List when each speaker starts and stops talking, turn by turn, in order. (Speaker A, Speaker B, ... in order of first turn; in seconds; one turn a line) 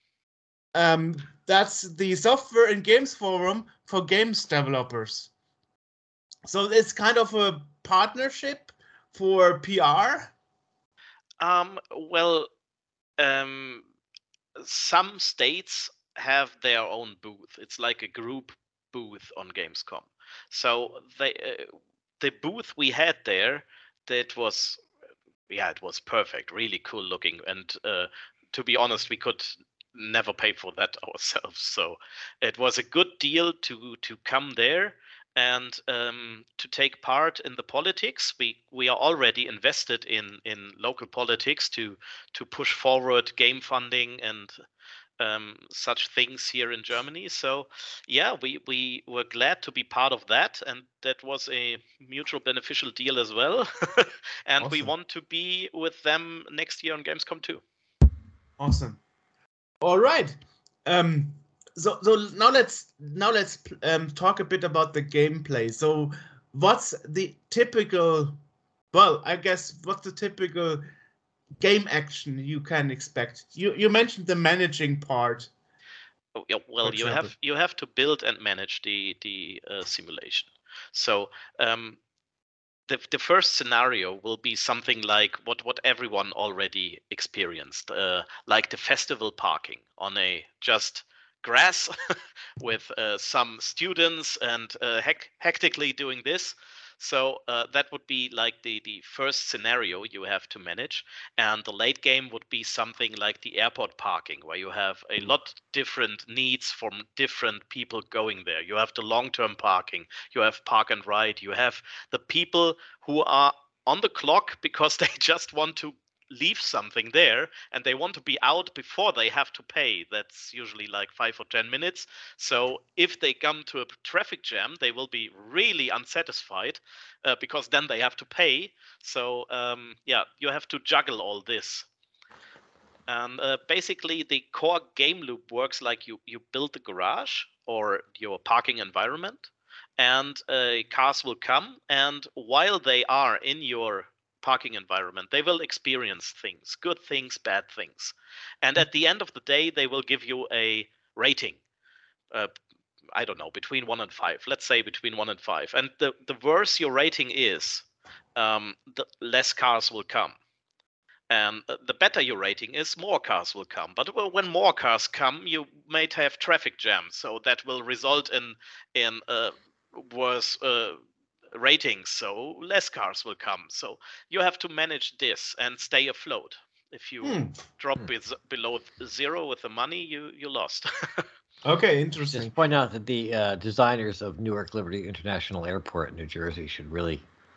Speaker A: 0.7-5.3
Speaker A: 6.5-10.3
Speaker B: 11.4-12.5
Speaker B: 13.2-13.9
Speaker B: 14.6-24.8
Speaker B: 25.5-44.6
Speaker B: 45.2-57.6
Speaker A: 54.6-54.9
Speaker A: 58.6-59.0
Speaker A: 59.8-68.4
Speaker A: 68.9-70.8
Speaker A: 71.6-75.5
Speaker B: 76.4-82.0
Speaker A: 76.8-77.3
Speaker B: 82.9-91.9
Speaker B: 92.6-131.9
Speaker B: 133.1-151.6
Speaker B: 153.2-160.4
Speaker B: 161.3-171.0
Speaker B: 171.5-181.3
Speaker A: 177.2-177.5
Speaker A: 181.7-182.5
Speaker C: 182.3-187.2